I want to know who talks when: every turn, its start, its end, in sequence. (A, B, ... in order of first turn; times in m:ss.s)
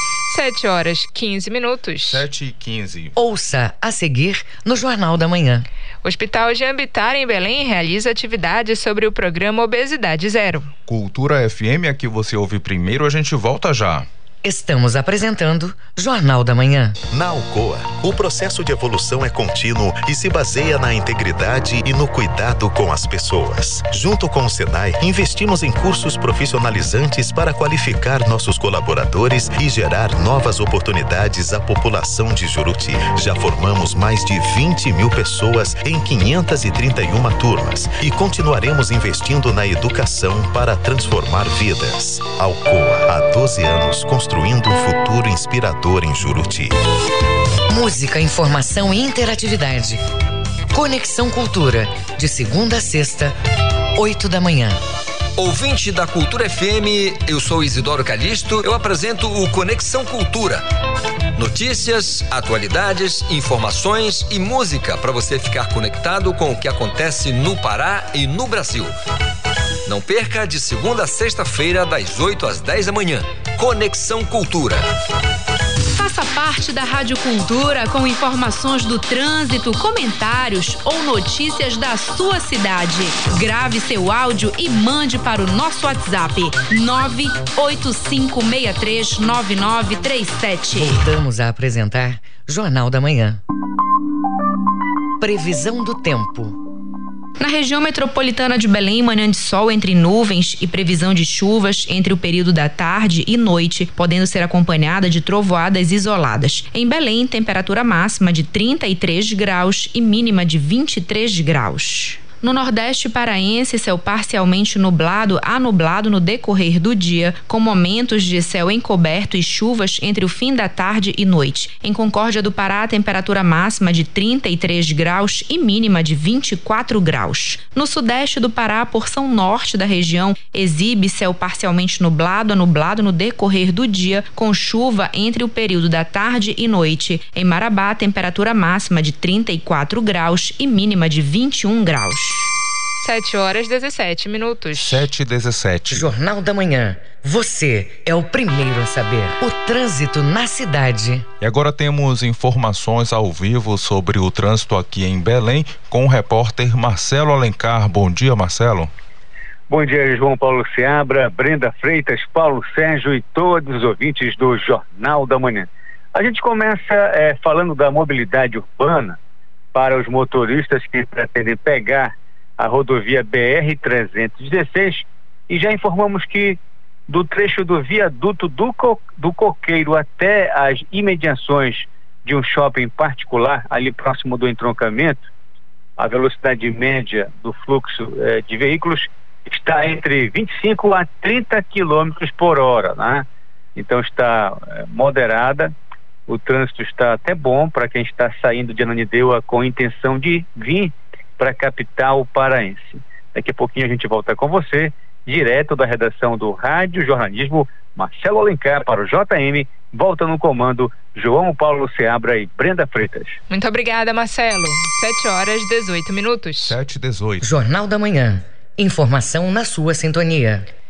0:00.3-0:02.2 A
0:02.0-0:03.1 B
0:03.2-0:05.6 C
0:06.0-0:10.7 A
0:10.9-0:14.1 B
0:14.4-0:17.0 C
0:17.1-0:46.7 D
0:47.7-0:50.0 C
0:50.7-0:53.3 C
0:53.9-0:54.8 C
0:55.4-1:00.6 E
1:01.4-1:08.9 E
1:09.9-1:14.8 E
1:16.0-1:31.0 F
1:30.7-1:33.4 C
1:35.2-1:36.6 C
1:37.4-2:22.5 F
2:23.0-2:25.0 A
2:24.7-2:26.1 B
2:25.9-2:31.2 C
2:31.4-2:38.9 B
2:39.7-2:49.2 G
2:49.7-2:56.6 G
2:57.1-3:05.2 G
3:06.0-3:13.2 G
3:13.8-3:15.7 G
3:16.3-3:33.3 G
3:33.5-3:36.8 A
3:36.7-3:37.5 B
3:37.4-3:40.7 C